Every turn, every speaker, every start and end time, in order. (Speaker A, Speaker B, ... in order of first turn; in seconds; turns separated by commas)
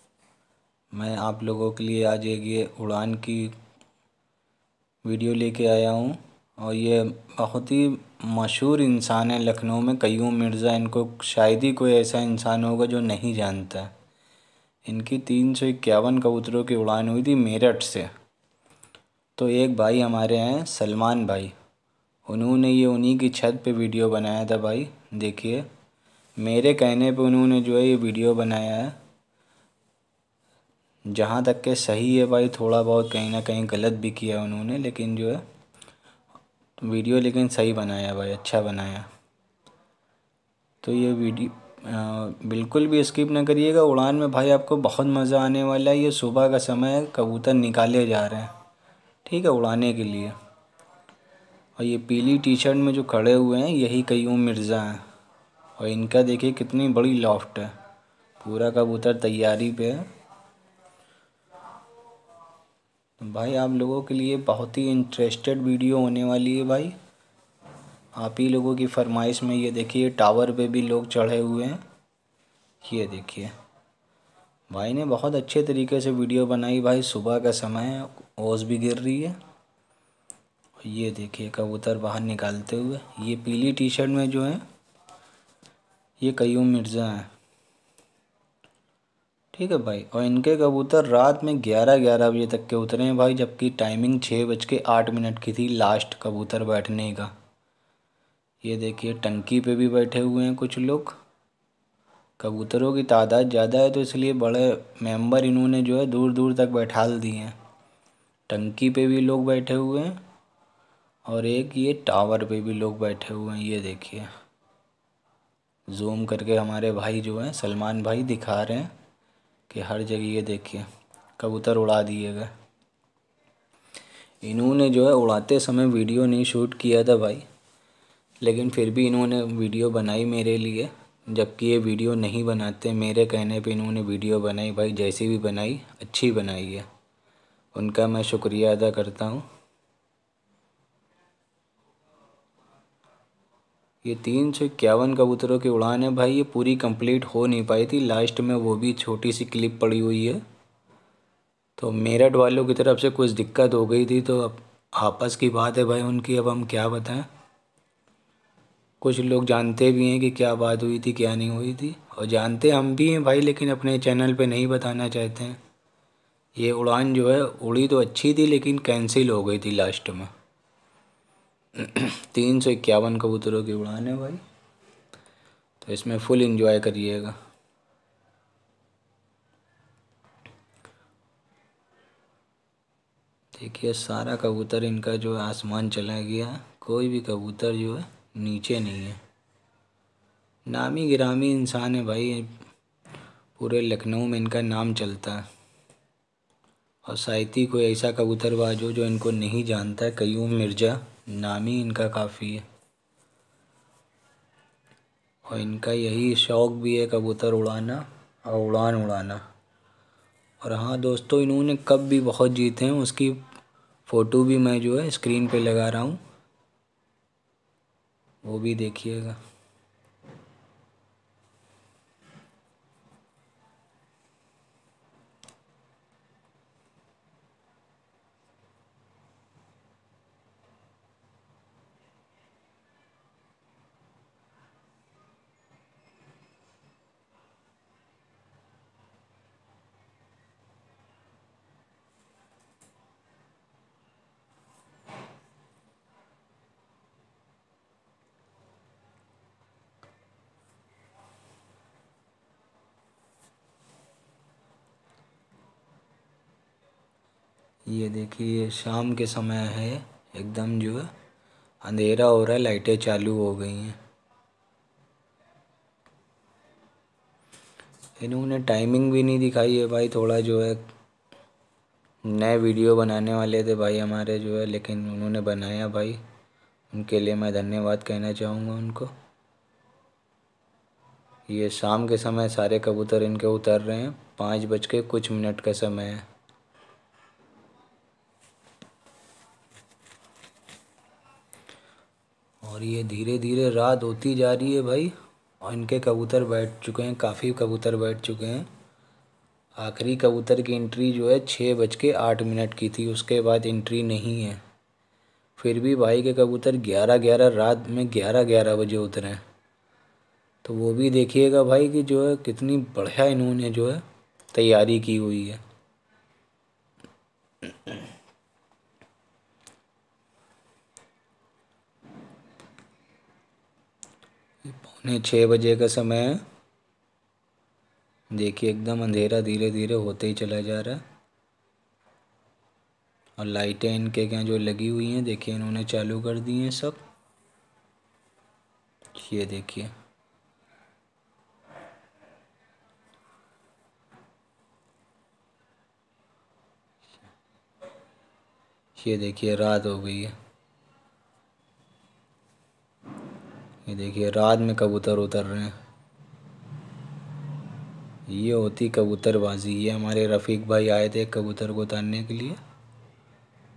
Speaker A: 0.9-3.5, Speaker A: 5.0-13.9, Speaker A: 14.8-18.1, Speaker A: 19.4-21.5, Speaker A: 22.3-25.7, Speaker A: 26.4-28.9, Speaker A: 31.1-35.4, Speaker A: 36.8-39.1, Speaker A: 40.8-48.5, Speaker A: 49.2-50.3, Speaker A: 51.8-55.0, Speaker A: 55.8-57.7, Speaker A: 58.4-60.0, Speaker A: 63.2-66.9, Speaker A: 68.2-71.8, Speaker A: 72.8-73.5, Speaker A: 74.7-79.4, Speaker A: 80.8-84.6, Speaker A: 86.2-87.3, Speaker A: 89.5-97.3, Speaker A: 98.6-101.2, Speaker A: 102.4-107.5, Speaker A: 108.5-110.2, Speaker A: 111.2-114.3, Speaker A: 115.9-118.9, Speaker A: 119.7-120.8, Speaker A: 121.4-122.5, Speaker A: 124.4-127.4, Speaker A: 128.4-136.8, Speaker A: 137.7-139.5, Speaker A: 144.0-150.4, Speaker A: 151.8-157.3, Speaker A: 159.0-165.6, Speaker A: 166.6-170.3, Speaker A: 171.8-174.4, Speaker A: 175.8-177.3, Speaker A: 183.6-189.2, Speaker A: 190.7-192.6, Speaker A: 193.6-195.5, Speaker A: 197.1-202.6, Speaker A: 205.5-209.4, Speaker A: 210.6-213.4, Speaker A: 214.1-216.2, Speaker A: 218.4-219.4, Speaker A: 257.9-261.1, Speaker A: 261.8-264.0, Speaker A: 268.2-270.8, Speaker A: 272.2-276.2, Speaker A: 276.9-279.1, Speaker A: 281.5-286.2, Speaker A: 292.6-298.7, Speaker A: 299.8-304.6, Speaker A: 305.6-309.4, Speaker A: 310.6-315.6, Speaker A: 324.6-326.4, Speaker A: 328.3-331.0, Speaker A: 333.4-337.0, Speaker A: 339.1-339.9, Speaker A: 348.9-350.3, Speaker A: 353.9-355.7, Speaker A: 358.3-362.6